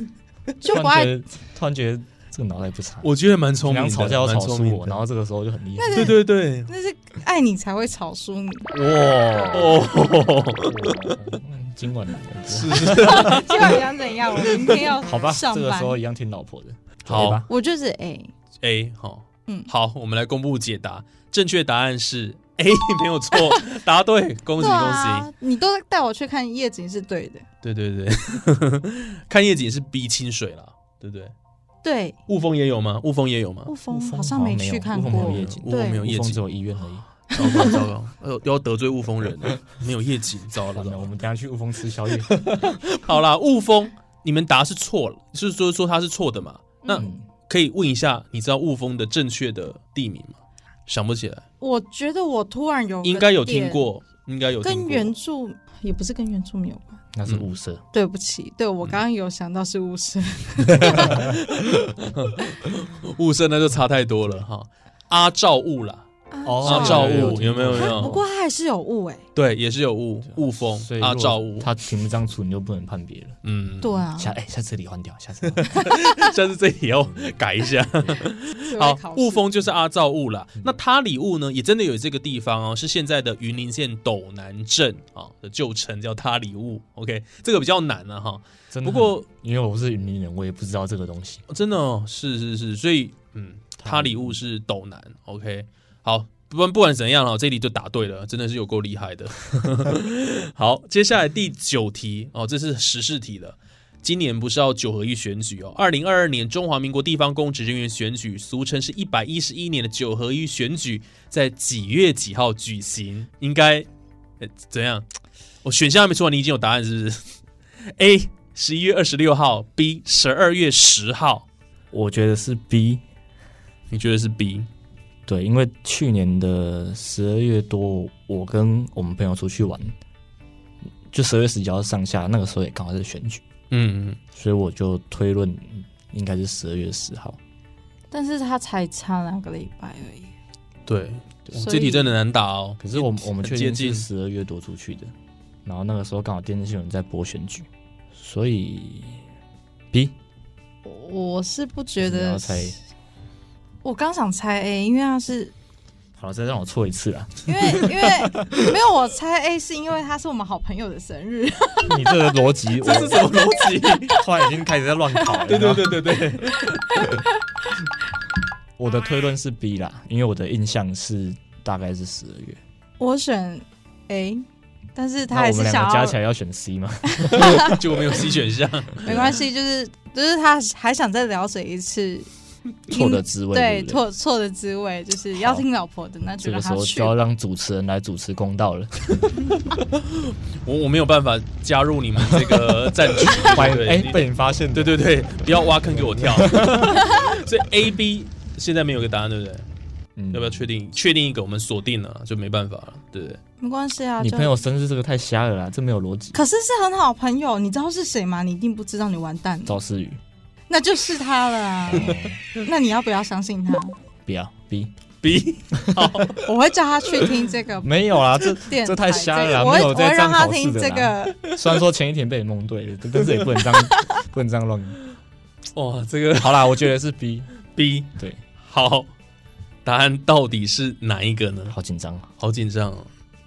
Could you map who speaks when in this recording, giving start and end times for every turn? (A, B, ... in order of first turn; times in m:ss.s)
0:00.6-0:01.2 A
0:00.6-0:03.1 B
0:03.0-0:05.0 C
0:03.6-0:06.2 B
0:05.8-0:08.7 A
0:06.0-0:06.7 C
0:08.7-0:09.8 B
0:09.5-0:11.1 C
0:10.6-0:13.5 B
0:12.5-0:13.7 C
0:12.9-0:16.0 A
0:15.0-0:17.5 B
0:17.1-0:17.4 C
0:17.5-0:18.3 A
0:18.6-0:25.3 C
0:24.6-0:27.4 A
0:27.6-0:31.3 C
0:31.8-0:32.2 A
0:32.3-0:33.7 C
0:33.6-0:36.0 A
0:33.9-0:37.7 B
0:35.1-0:36.4 C
0:37.3-0:41.1 C
0:40.7-0:42.7 B
0:42.4-0:51.4 C
0:46.9-0:47.3 B
0:51.6-0:53.8 A
0:53.0-0:55.1 C
0:54.6-0:57.0 A
0:57.1-0:57.8 B
0:57.9-1:01.2 A
1:00.9-1:01.3 B
1:02.0-1:06.1 C
1:06.3-1:09.2 A
1:06.4-1:08.2 B
1:06.6-1:08.2 C
1:09.3-1:11.7 C
1:10.4-1:13.4 B
1:13.4-1:14.0 C
1:13.8-1:14.3 A
1:14.2-1:15.8 B
1:15.5-1:29.2 C
1:15.9-1:16.2 A
1:17.0-1:17.4 B
1:18.0-1:18.2 B
1:18.6-1:19.5 A
1:28.7-1:31.4 B
1:31.5-1:53.9 C
1:33.8-1:34.4 B
1:54.4-1:55.0 C
1:55.6-1:57.3 C
1:58.0-2:01.4 C
2:01.9-2:03.0 B
2:03.9-2:04.7 C
2:05.2-2:10.0 B
2:11.1-2:13.4 B
2:13.7-2:14.2 C
2:14.3-2:17.4 B
2:18.1-2:20.3 A
2:20.9-2:24.0 C
2:21.5-2:22.1 A
2:22.8-2:25.1 B
2:25.6-2:29.2 B
2:30.8-2:32.7 A
2:32.0-2:32.8 B
2:33.8-2:35.5 A
2:36.2-2:38.3 B
2:37.4-2:42.3 A
2:41.9-2:43.3 B
2:42.8-2:44.1 C
2:43.2-2:44.2 A
2:44.1-2:46.0 B
2:45.5-2:47.1 C
2:46.6-2:47.2 A
2:48.8-2:52.6 B
2:53.0-2:56.2 A
2:55.3-2:57.7 B
2:57.2-2:57.7 A
2:57.5-2:59.3 C
2:59.0-3:02.3 A
3:02.9-3:04.0 B
3:02.9-3:07.2 A
3:05.3-3:05.6 B
3:06.4-3:09.5 B
3:10.0-3:19.7 C
3:12.3-3:17.0 B
3:20.2-3:20.7 B
3:20.3-3:23.4 C
3:23.6-3:24.6 A
3:24.2-3:26.4 B
3:26.3-3:29.8 A
3:29.6-3:30.2 B
3:30.7-3:34.0 A
3:31.9-3:32.4 B
3:34.2-3:34.9 B
3:35.2-3:36.4 C
3:35.8-3:36.2 B
3:36.4-3:41.5 A
3:37.8-3:45.0 B
3:45.7-3:46.9 C
3:46.3-3:47.5 B
3:47.7-3:49.1 C
3:48.2-3:48.4 B
3:49.8-3:51.8 C
3:51.7-3:52.3 B
3:52.4-3:53.1 C